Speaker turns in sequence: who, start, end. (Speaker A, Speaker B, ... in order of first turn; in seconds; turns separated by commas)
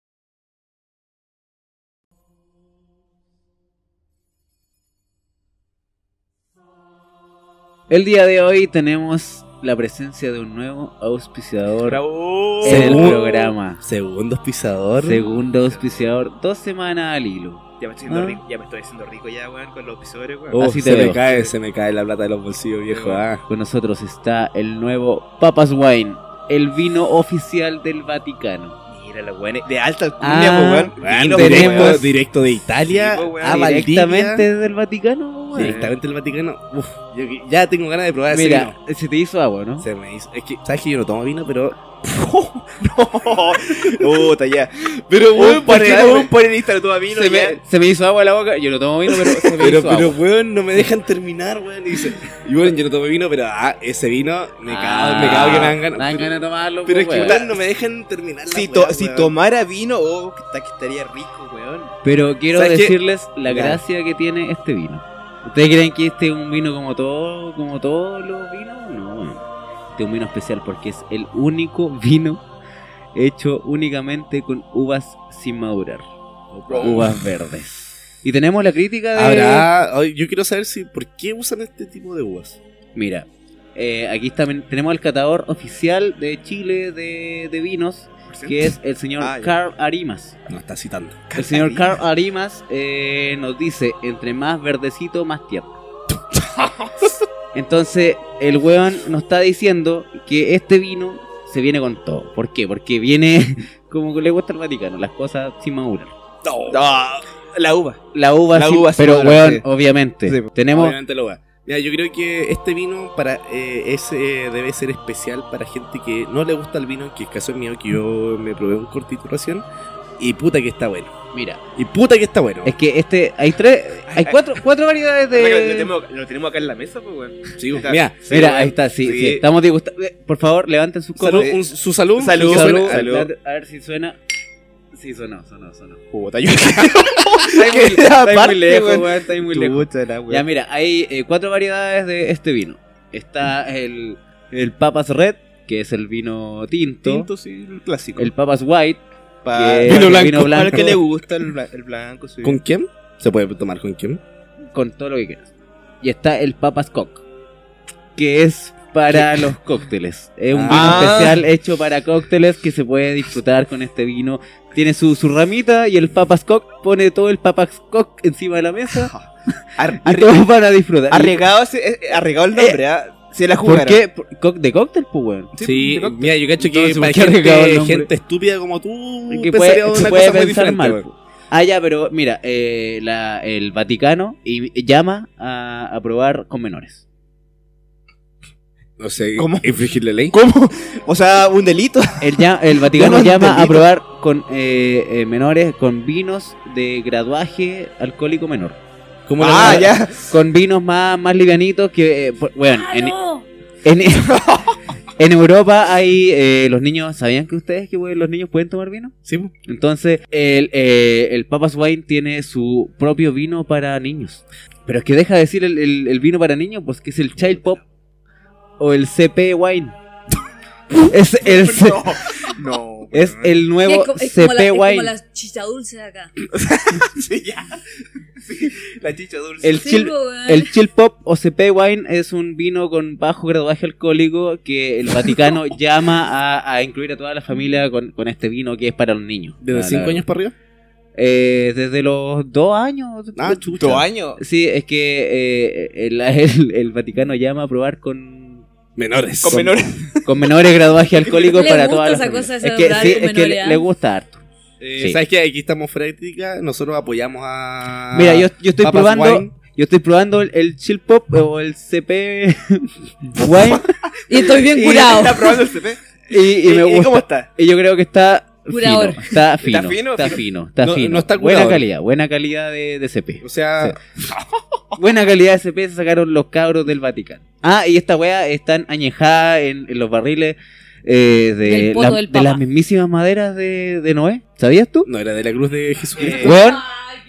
Speaker A: 7.9-12.0, Speaker B: 11.8-13.2, Speaker A: 12.6-13.8, Speaker C: 12.6-15.2, Speaker A: 15.0-18.4, Speaker B: 15.5-15.9, Speaker B: 17.8-21.5, Speaker C: 20.5-23.4, Speaker A: 20.5-21.2, Speaker B: 22.9-23.2, Speaker A: 23.5-28.8, Speaker B: 28.9-32.1, Speaker A: 30.2-32.1, Speaker C: 31.0-34.5, Speaker B: 32.9-33.8, Speaker A: 33.4-35.8, Speaker B: 35.5-35.9, Speaker C: 35.5-38.7, Speaker A: 38.3-39.9, Speaker C: 39.8-41.9, Speaker B: 42.0-47.6, Speaker C: 45.3-46.3, Speaker A: 45.5-46.3, Speaker A: 47.1-50.2, Speaker C: 49.6-59.3, Speaker A: 54.6-57.4, Speaker B: 55.2-55.8, Speaker B: 57.1-57.6, Speaker B: 58.5-61.9, Speaker A: 62.0-69.4, Speaker C: 62.5-63.0, Speaker B: 63.5-63.8, Speaker A: 69.9-72.4, Speaker A: 73.1-79.7, Speaker B: 76.7-77.0, Speaker C: 76.7-77.2, Speaker C: 79.1-82.6, Speaker A: 82.9-90.4, Speaker B: 88.3-89.5, Speaker C: 90.5-91.2, Speaker B: 91.3-92.0, Speaker A: 91.3-95.8, Speaker B: 96.5-97.1, Speaker A: 97.5-106.1, Speaker C: 106.4-106.8, Speaker B: 106.7-108.0, Speaker A: 108.1-111.0, Speaker B: 108.5-109.7, Speaker B: 110.2-110.5, Speaker C: 110.7-119.6, Speaker C: 120.2-121.1, Speaker A: 121.3-121.6, Speaker C: 121.8-122.8, Speaker A: 122.6-125.9, Speaker B: 124.1-124.5, Speaker B: 125.3-129.4, Speaker C: 127.6-128.3, Speaker A: 128.3-131.5, Speaker C: 131.2-133.1, Speaker B: 131.3-131.6, Speaker B: 132.2-133.3, Speaker A: 132.4-134.2, Speaker A: 134.9-136.0, Speaker B: 136.1-140.4, Speaker A: 137.4-147.3, Speaker B: 147.0-148.3, Speaker A: 148.2-151.0, Speaker B: 149.4-152.6, Speaker C: 149.8-150.9, Speaker C: 152.4-154.2, Speaker A: 154.7-155.5, Speaker A: 156.0-157.2, Speaker A: 158.2-169.1, Speaker C: 160.5-161.3, Speaker B: 160.7-161.4, Speaker B: 168.9-170.4, Speaker A: 170.0-171.4, Speaker B: 171.1-174.0, Speaker A: 172.5-172.8, Speaker A: 173.6-175.5, Speaker B: 175.5-177.2, Speaker C: 175.6-181.1, Speaker A: 176.8-178.1, Speaker A: 179.3-187.0, Speaker C: 189.0-190.3, Speaker B: 189.3-189.8, Speaker B: 190.3-193.9, Speaker A: 192.2-198.8, Speaker C: 199.3-199.9, Speaker B: 199.4-200.3, Speaker A: 199.5-203.2, Speaker D: 202.7-203.4, Speaker A: 203.8-204.5, Speaker B: 204.3-204.6, Speaker A: 205.2-209.1, Speaker C: 209.2-209.5, Speaker A: 209.7-217.8, Speaker A: 218.8-219.9, Speaker B: 221.0-223.6, Speaker A: 221.1-222.5, Speaker A: 223.1-225.1, Speaker D: 223.8-226.3, Speaker B: 226.5-227.8, Speaker B: 228.4-229.9, Speaker A: 229.6-240.2, Speaker D: 229.7-230.8, Speaker C: 239.6-240.5, Speaker A: 241.2-248.7, Speaker C: 243.3-244.0, Speaker B: 243.8-244.4, Speaker C: 248.9-249.8, Speaker B: 249.4-250.5, Speaker A: 250.2-254.4, Speaker B: 251.1-251.8, Speaker D: 251.5-253.8, Speaker C: 254.8-259.5, Speaker A: 258.1-263.9, Speaker B: 263.4-266.0, Speaker D: 264.3-265.6, Speaker A: 266.3-274.0, Speaker B: 266.6-267.5, Speaker D: 268.7-269.3, Speaker B: 269.6-270.4, Speaker C: 270.8-271.8, Speaker C: 273.4-273.9, Speaker B: 274.3-274.8, Speaker A: 275.0-285.1, Speaker D: 281.6-282.6, Speaker C: 285.1-286.6, Speaker A: 286.4-286.8